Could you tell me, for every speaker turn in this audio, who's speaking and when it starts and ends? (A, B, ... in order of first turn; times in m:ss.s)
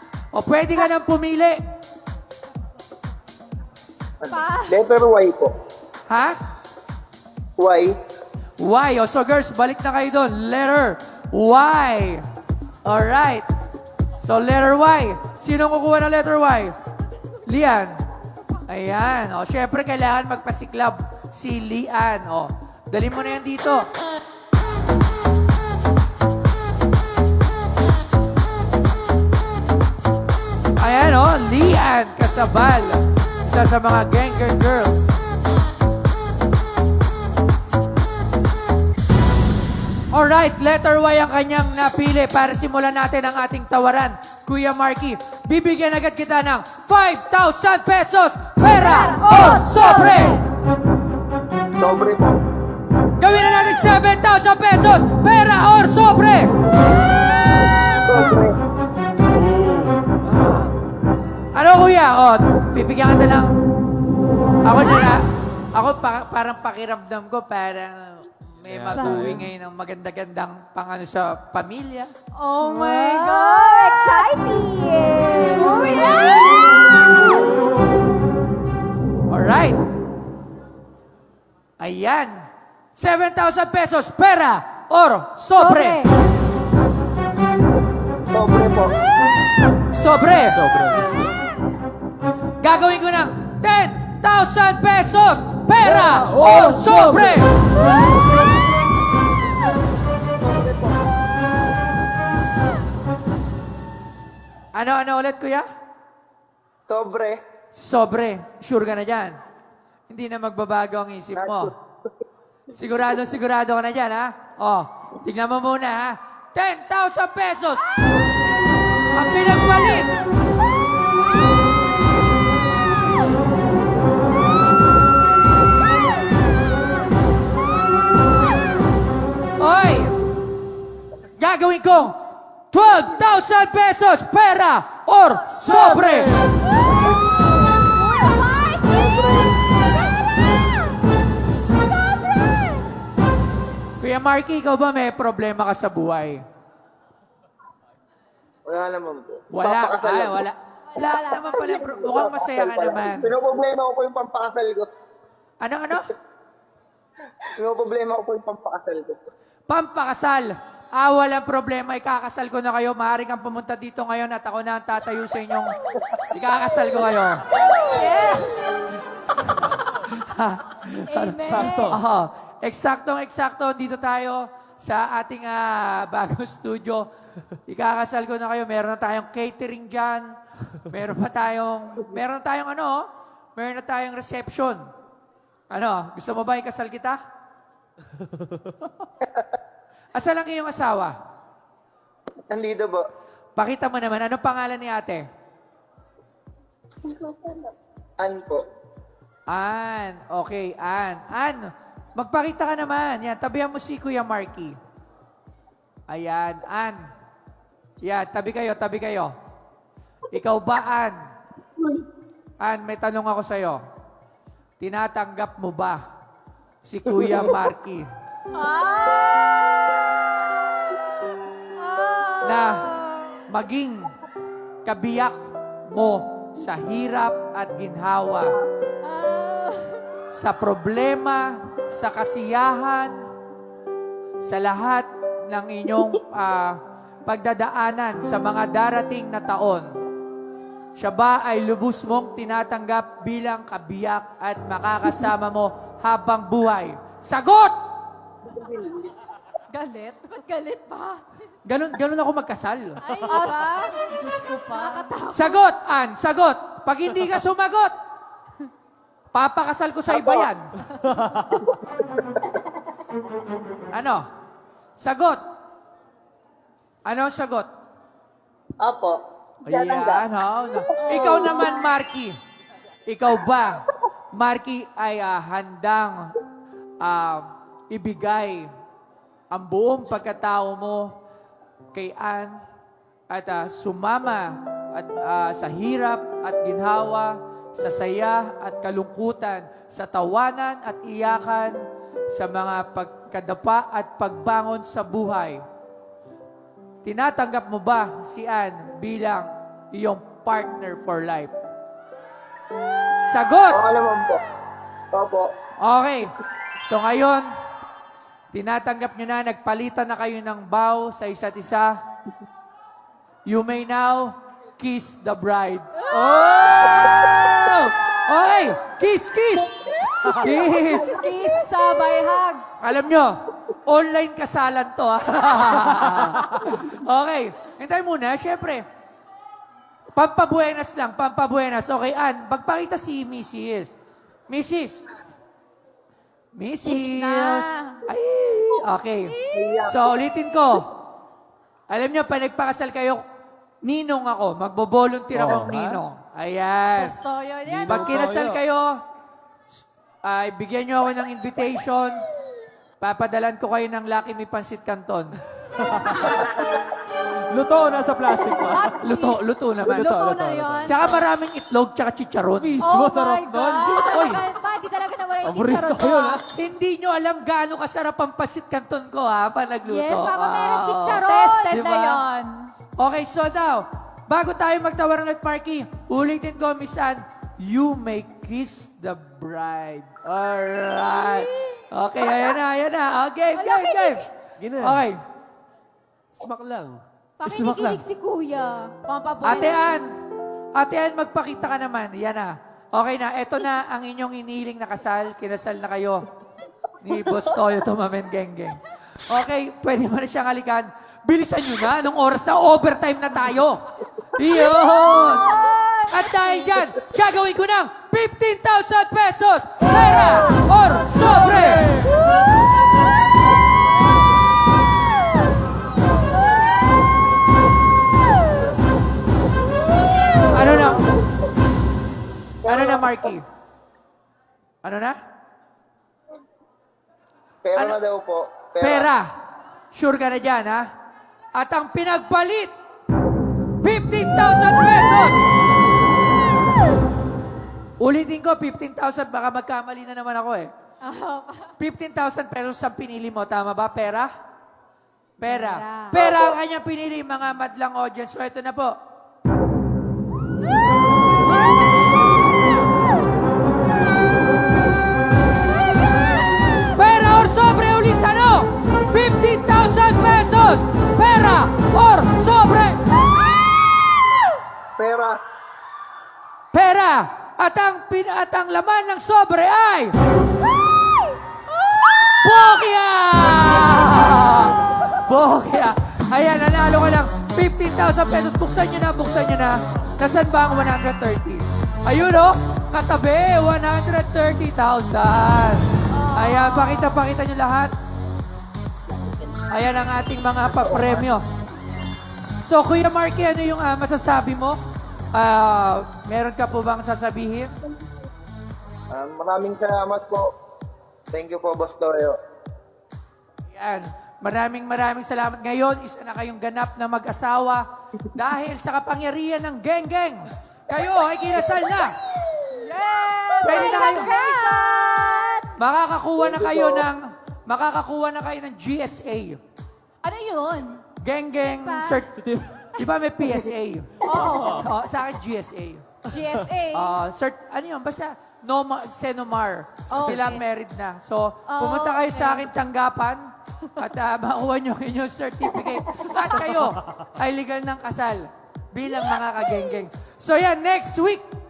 0:00.3-0:01.6 A
0:04.3-0:05.5 B
0:04.3-0:04.8 C
0:06.1-0:06.4 A
0:07.6-0:08.0 B
0:08.6-0:12.2 A
0:12.8-0:13.4 A
0:14.2-0:16.7 A
0:17.5-0:17.9 A
0:18.7-0:23.9 A
0:30.8-0:35.1 A
0:40.1-0:50.4 A
0:48.6-0:50.4 D
0:51.8-0:52.4 B
0:53.2-0:56.5 A
0:58.0-0:58.6 B
0:59.3-1:00.0 E
1:00.2-1:00.7 A
1:01.5-1:03.5 A
1:04.6-1:05.2 A
1:05.7-1:12.1 A
1:08.7-1:09.5 E
1:08.9-1:09.2 C
1:12.4-1:14.3 D
1:12.6-1:17.4 C
1:15.5-1:16.6 D
1:19.3-1:19.8 A
1:21.8-1:22.3 A
1:22.9-1:26.0 A
1:25.6-1:26.1 C
1:28.3-1:28.9 B
1:29.9-1:30.6 A
1:30.5-1:31.4 E
1:32.6-1:37.5 A
1:35.8-1:37.5 E
1:40.4-1:41.0 B
1:44.7-1:45.7 A
1:46.9-1:47.4 B
1:47.7-1:49.4 A
1:50.1-1:51.7 A
1:51.3-1:51.7 B
1:52.7-1:57.8 A
1:59.1-2:00.1 A
2:09.6-2:10.1 A
2:11.4-2:12.2 A
2:12.7-2:16.4 A
2:15.5-2:16.6 E
2:16.6-2:19.4 D
2:18.8-2:19.5 B
2:24.0-2:26.4 A
2:28.6-2:30.4 B
2:29.5-2:33.3 A
2:30.9-2:31.8 C
2:31.8-2:34.9 B
2:35.6-2:36.1 A
2:37.6-2:39.2 B
2:39.7-2:45.8 A
2:46.3-2:47.4 A
2:47.8-2:48.6 C
2:50.1-2:57.1 A
2:51.1-2:52.0 C
2:51.4-2:52.0 E
2:57.7-3:00.3 A
3:00.9-3:04.8 A
3:05.7-3:07.2 A
3:08.4-3:08.7 E
3:09.2-3:09.4 B
3:10.1-3:11.2 A
3:12.5-3:13.1 B
3:13.6-3:15.2 A
3:17.1-3:17.6 F
3:18.2-3:18.6 B
3:19.5-3:24.8 A
3:26.1-3:27.0 A
3:28.0-3:29.3 A
3:30.3-3:31.1 A
3:32.6-3:33.8 A
3:34.8-3:36.0 A
3:36.8-3:38.1 A
3:38.5-3:40.5 D
3:41.8-3:43.4 C
3:42.4-3:42.9 A
3:43.5-3:44.1 A
3:44.8-3:45.4 A
3:45.9-3:48.6 A
3:49.1-3:50.0 C
3:50.3-3:53.2 A
3:54.4-3:59.9 A
4:01.0-4:07.7 A
4:08.6-4:09.0 B
4:09.7-4:10.5 D
4:10.4-4:11.2 C
4:11.6-4:13.0 A
4:13.0-4:14.2 C
4:13.3-4:15.1 D
4:14.7-4:15.6 C
4:15.3-4:17.9 A
4:19.3-4:20.7 A
4:21.0-4:21.7 E
4:23.9-4:24.2 A
4:25.0-4:25.4 A
4:27.0-4:27.7 A
4:28.8-4:30.2 F
4:29.6-4:32.3 A
4:31.0-4:31.7 F
4:33.1-4:33.8 A
4:34.3-4:36.3 A
4:37.0-4:38.7 A
4:39.5-4:41.1 A
4:41.9-4:42.6 A
4:43.3-4:51.8 A
4:52.3-4:55.6 A
4:57.0-5:01.5 A
5:03.3-5:03.8 A
5:03.7-5:04.4 B
5:05.1-5:05.5 B
5:05.8-5:06.3 A
5:06.8-5:07.5 A
5:08.5-5:11.9 A
5:13.4-5:21.3 A
5:16.1-5:17.4 D
5:20.9-5:22.6 D
5:22.8-5:23.3 A
5:23.8-5:28.8 A
5:26.0-5:26.6 E
5:30.1-5:33.9 A
5:34.5-5:35.0 A
5:36.5-5:40.9 A
5:36.8-5:38.0 D
5:39.3-5:39.6 D
5:39.5-5:40.1 B
5:41.9-5:43.2 A
5:43.8-5:47.2 A
5:45.3-5:46.0 E
5:46.9-5:48.2 D
5:47.7-5:48.6 E
5:47.9-5:49.0 A
5:50.2-5:52.2 A
5:53.0-5:55.3 A
5:55.7-5:56.6 E
5:57.5-5:59.0 E
5:58.7-6:01.2 D
5:59.0-6:00.1 A
5:59.8-6:01.2 E
6:00.9-6:02.8 A
6:02.6-6:04.4 E
6:02.8-6:04.3 D
6:03.8-6:06.4 C
6:05.4-6:06.4 E
6:06.5-6:12.2 A
6:09.8-6:11.8 C
6:11.2-6:12.7 D
6:13.0-6:24.2 A
6:21.2-6:21.8 C
6:23.6-6:24.2 C
6:24.6-6:25.0 E
6:24.8-6:25.2 A
6:26.3-6:27.0 E
6:27.4-6:28.9 C
6:27.4-6:28.0 A
6:29.1-6:29.8 D
6:29.4-6:30.0 A
6:30.8-6:36.2 A
6:37.0-6:43.8 A
6:44.3-6:45.5 A
6:44.4-6:46.8 D
6:46.1-6:51.9 A
7:00.5-7:01.2 B
7:00.5-7:01.0 A
7:02.6-7:03.3 B
7:02.7-7:03.4 A
7:04.8-7:05.2 A
7:07.6-7:09.1 B
7:08.8-7:09.3 A
7:09.9-7:10.9 A
7:11.5-7:12.7 A
7:13.8-7:15.4 A
7:18.0-7:20.7 A
7:21.0-7:21.7 C
7:21.8-7:24.3 A
7:25.4-7:28.9 A
7:25.4-7:26.2 C
7:26.2-7:26.6 B
7:37.0-7:43.0 A
7:45.0-7:45.4 B
7:46.7-7:50.1 A
7:52.4-8:07.9 A
8:06.1-8:07.1 D
8:09.7-8:11.4 A
8:12.6-8:14.8 A
8:15.3-8:17.7 A
8:19.1-8:20.5 B
8:21.3-8:22.4 B
8:23.7-8:32.1 A
8:32.7-8:35.8 D
8:33.6-8:34.3 A
8:33.6-8:34.9 C
8:35.8-8:39.6 A
8:36.4-8:37.1 B
8:40.2-8:41.0 D
8:41.2-8:42.3 A
8:41.8-8:42.2 C
8:42.3-8:43.0 E
8:43.0-8:46.0 A
8:44.2-8:44.9 D
8:44.3-8:44.8 E
8:46.3-8:47.1 D
8:46.3-8:46.6 E
8:46.9-8:53.4 A
8:50.1-8:50.6 D
8:50.1-8:50.4 E
8:51.7-8:52.7 D
8:54.0-9:01.4 A